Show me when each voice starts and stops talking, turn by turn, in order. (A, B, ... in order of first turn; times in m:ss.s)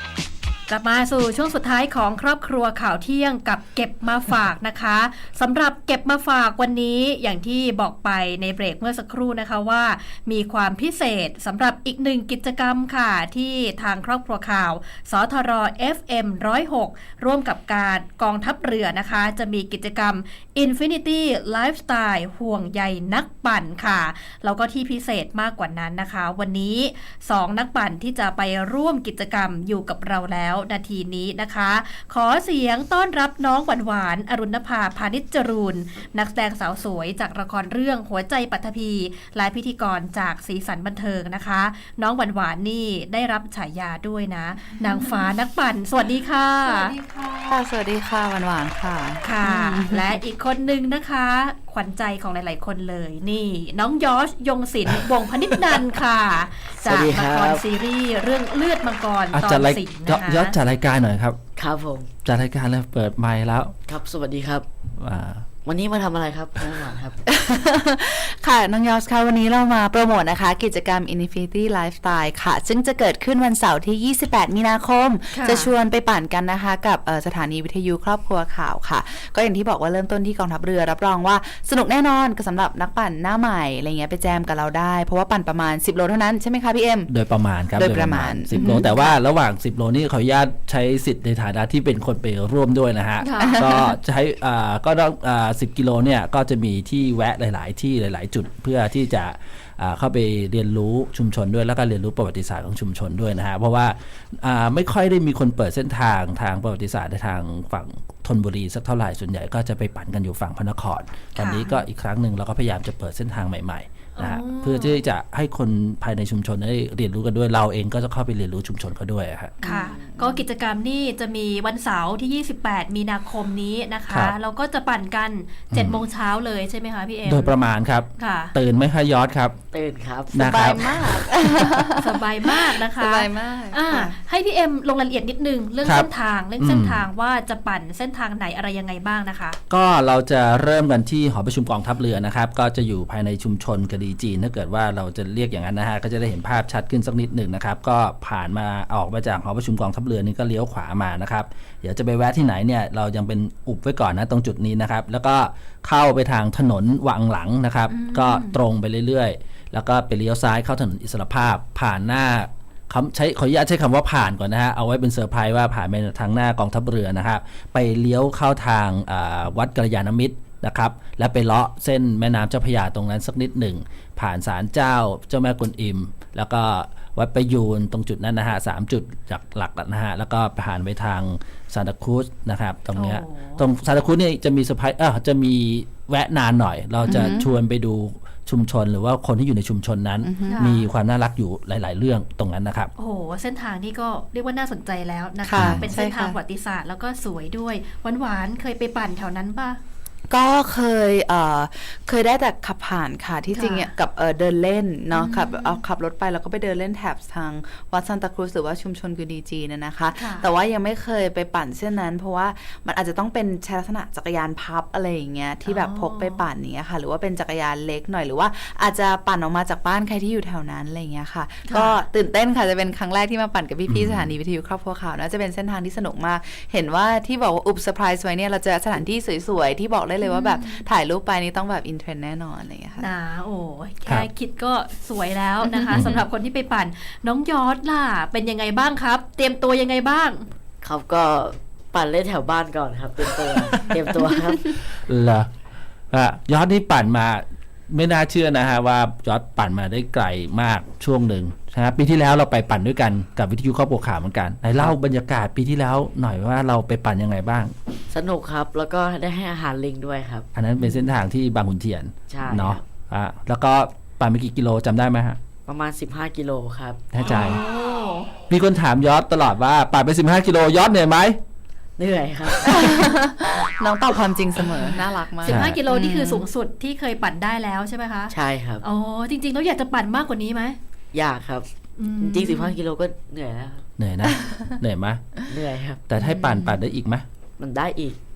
0:00.7-0:46.9 A
0:44.7-0:45.3 B
0:46.6-0:50.2 B
0:49.2-1:00.6 A
0:56.8-0:57.6 C
0:59.3-1:01.4 D
1:01.6-1:02.1 C
1:02.2-1:03.7 D
1:03.9-1:04.7 C
1:05.0-1:05.4 D
1:05.6-1:07.2 C
1:07.3-1:27.1 B
1:15.3-1:15.7 A
1:27.1-1:59.6 D
1:27.7-1:28.9 B
1:28.5-1:29.0 A
1:33.2-1:33.8 A
1:33.4-1:33.7 B
1:51.4-1:51.8 A
1:54.2-1:55.0 A
1:59.6-2:07.6 A
1:59.6-2:00.4 B
2:04.1-2:04.3 D
2:05.7-2:06.0 D
2:07.2-2:09.6 D
2:08.1-2:08.5 A
2:09.7-2:10.5 C
2:10.3-2:11.6 D
2:10.3-2:14.2 B
2:11.9-2:19.6 A
2:15.8-2:17.0 D
2:19.7-3:12.9 D
2:37.9-2:38.6 A
3:02.9-3:03.6 A
3:07.0-3:07.5 A
3:07.0-3:07.5 B
3:10.2-3:10.7 B
3:10.4-3:10.9 A
3:13.0-3:19.8 A
3:15.4-3:16.4 B
3:15.6-3:15.9 D
3:20.3-3:53.1 B
3:23.5-3:23.9 A
3:25.1-3:25.8 A
3:30.1-3:30.4 A
3:35.6-3:36.4 A
3:41.7-3:42.0 A
3:43.9-3:44.3 D
3:50.2-3:50.8 A
3:53.0-4:00.5 A
3:55.9-3:56.2 D
4:00.8-4:04.8 C
4:05.0-4:05.5 D
4:06.1-4:17.7 D
4:18.1-4:20.5 C
4:20.5-4:25.4 D
4:22.3-4:22.8 C
4:25.7-4:27.1 C
4:27.1-4:27.6 D
4:27.2-4:28.3 A
4:28.5-4:31.4 D
4:32.0-4:32.9 C
4:32.6-4:36.5 B
4:35.4-4:40.8 A
4:35.4-4:35.8 D
4:38.3-4:38.8 C
4:41.1-4:41.7 C
4:42.0-4:42.8 A
4:42.2-4:43.8 C
4:44.0-4:45.3 D
4:45.5-4:46.0 C
4:46.1-4:47.2 D
4:46.2-4:46.8 B
4:47.6-4:48.2 C